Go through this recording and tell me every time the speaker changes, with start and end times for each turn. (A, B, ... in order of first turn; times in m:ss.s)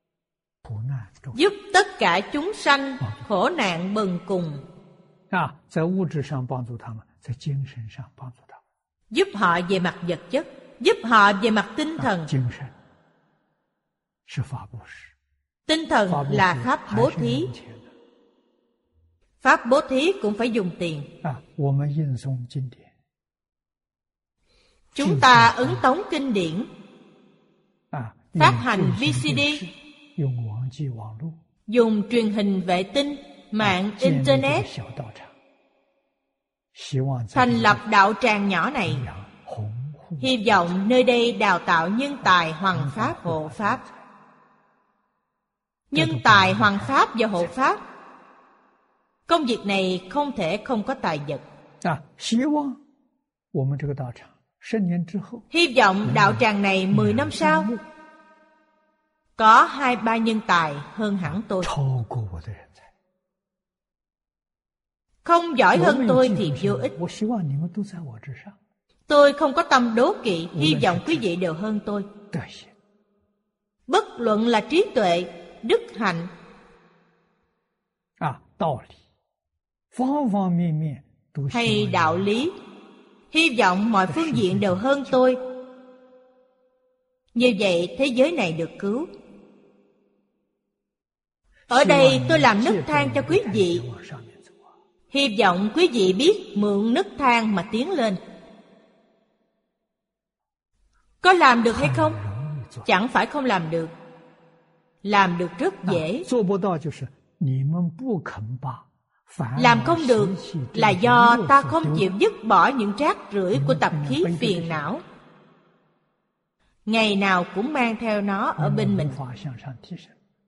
0:00.6-0:01.4 A
0:01.3-0:04.6 B
0:05.3-0:08.6 A
0:09.1-0:12.3 B
0:12.0-0:12.8 A
0:14.3-0:15.1 A
0:15.7-0:17.5 B
0:16.1-0:17.9 A
0:19.4-0:21.1 B
0:21.2-0:22.9 A
0:24.9-0:26.7 B
0:25.0-0:25.8 A
0:27.9-0:31.4 A
0:28.4-0:29.6 B
0:31.7-0:34.7 B
0:33.6-0:35.3 A
0:36.7-0:37.8 A
0:37.3-0:39.0 B
0:38.8-0:40.7 A
0:40.2-0:43.8 B
0:42.2-0:44.0 A
0:45.9-0:47.8 B
0:45.9-0:47.5 A
0:49.3-0:51.4 B
0:51.8-0:52.8 A
0:53.5-0:55.5 A
0:55.5-0:57.7 B
0:56.0-0:57.8 A
0:59.4-1:01.7 B
1:01.3-1:02.9 A
1:05.2-1:06.9 B
1:05.7-1:08.6 A
1:09.1-1:12.1 B
1:10.5-1:11.3 A
1:12.3-1:12.7 A
1:13.9-1:16.3 B
1:18.2-1:19.0 A
1:19.9-1:22.5 A
1:21.5-1:22.5 B
1:23.3-1:25.4 B
1:24.1-1:25.2 A
1:27.4-1:29.1 B
1:31.7-1:33.8 B
1:31.7-1:34.6 A
1:35.1-1:38.2 B
1:41.2-1:42.2 B
1:41.7-1:42.9 A
1:42.9-1:43.9 B
1:45.0-1:46.3 B
1:45.8-1:52.1 A
1:49.6-1:55.0 B
1:53.5-1:54.9 A
1:56.9-1:59.2 B
1:58.6-2:00.2 A